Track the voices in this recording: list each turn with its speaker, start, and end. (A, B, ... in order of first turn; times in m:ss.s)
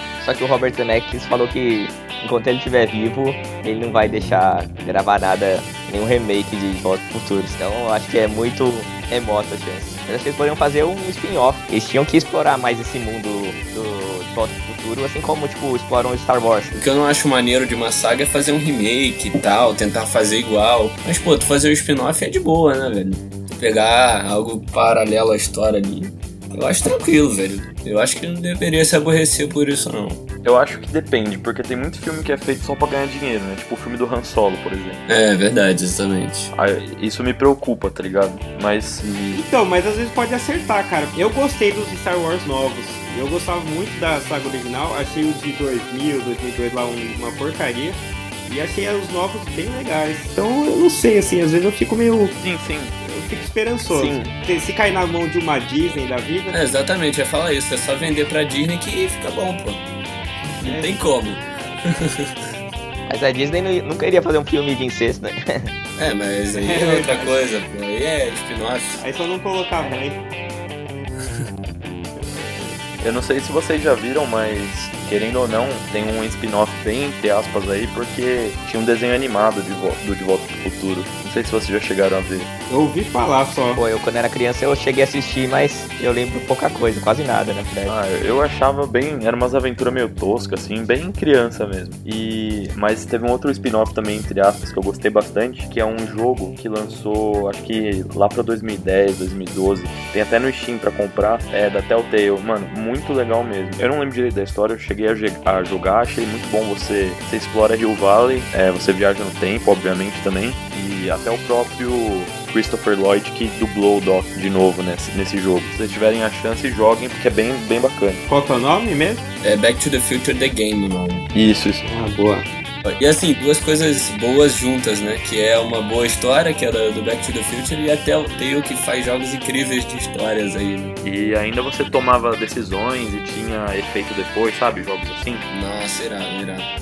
0:00.2-0:16.7 A
0:16.7-0:30.2 B
0:30.4-0:35.0 C
0:35.1-0:36.5 B
0:36.5-0:39.4 C
0:39.3-0:52.3 D
0:52.4-0:52.9 C
0:53.0-0:56.6 D
0:53.8-0:54.3 C
0:55.8-0:59.8 B
1:00.4-1:01.4 B
1:00.6-1:01.0 D
1:02.0-1:02.3 B
1:03.1-1:05.7 A
1:06.0-1:09.0 B
1:06.5-1:07.4 D
1:09.0-1:10.2 D
1:12.2-1:12.6 D
1:13.0-1:22.5 C
1:22.7-1:23.8 D
1:23.7-1:28.0 A
1:27.8-1:58.2 C
1:58.3-1:59.2 D
1:59.4-2:01.2 B
2:01.3-2:01.9 C
2:01.9-2:02.5 D
2:02.8-2:10.9 B
2:11.0-2:15.4 C
2:15.5-2:16.6 B